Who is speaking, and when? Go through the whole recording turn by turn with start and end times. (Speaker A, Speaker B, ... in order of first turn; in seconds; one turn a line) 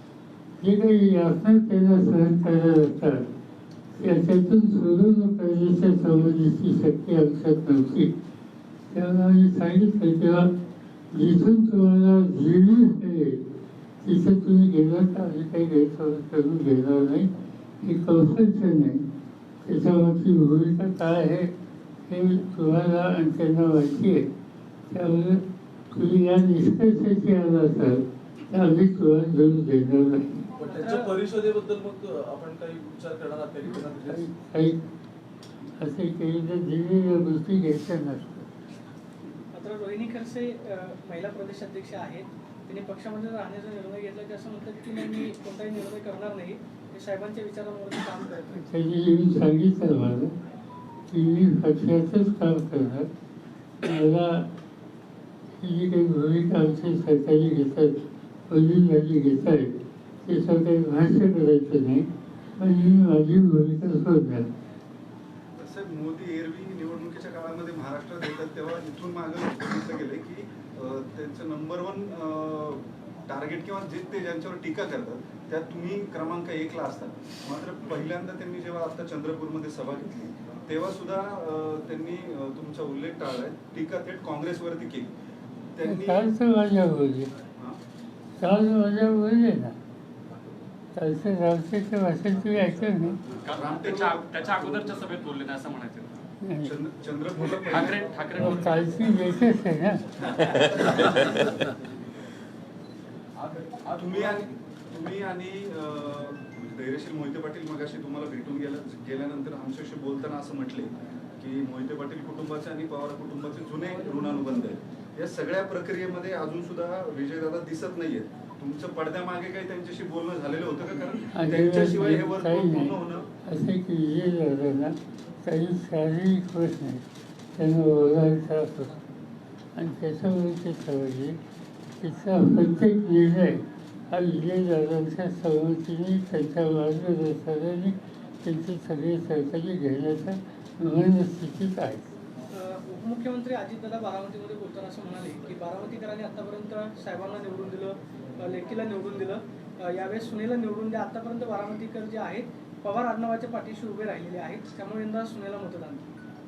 Speaker A: 0.6-3.2
Speaker A: 4.0-8.1
Speaker A: 8.9-10.5
Speaker A: 11.1-13.4
Speaker A: 14.0-17.3
Speaker A: 17.8-19.0
Speaker A: 19.6-21.5
Speaker A: 22.1-24.3
Speaker A: 24.9-25.4
Speaker A: 25.9-30.4
Speaker B: 30.6-34.3
Speaker C: 30.7-31.1
Speaker A: 34.1-34.8
Speaker A: 35.8-38.5
Speaker C: 39.5-48.6
Speaker A: 48.5-50.3
Speaker A: 51.1-53.1
Speaker A: 53.8-54.5
Speaker A: 55.6-58.0
Speaker A: 58.5-59.8
Speaker A: 60.3-62.1
Speaker A: 62.6-64.5
Speaker D: 65.6-85.1
Speaker D: 85.8-86.3
Speaker A: 85.8-87.3
Speaker A: 88.4-89.8
Speaker A: 91.0-93.2
Speaker E: 93.5-96.1
Speaker D: 93.5-95.0
Speaker A: 96.4-96.8
Speaker D: 96.6-98.1
Speaker E: 97.4-98.8
Speaker A: 98.4-100.0
Speaker D: 100.2-101.0
Speaker B: 103.4-104.2
Speaker D: 103.9-123.3
Speaker A: 121.3-127.0
Speaker A: 127.6-128.9
Speaker A: 129.8-131.4
Speaker A: 132.0-142.1
Speaker C: 142.5-156.1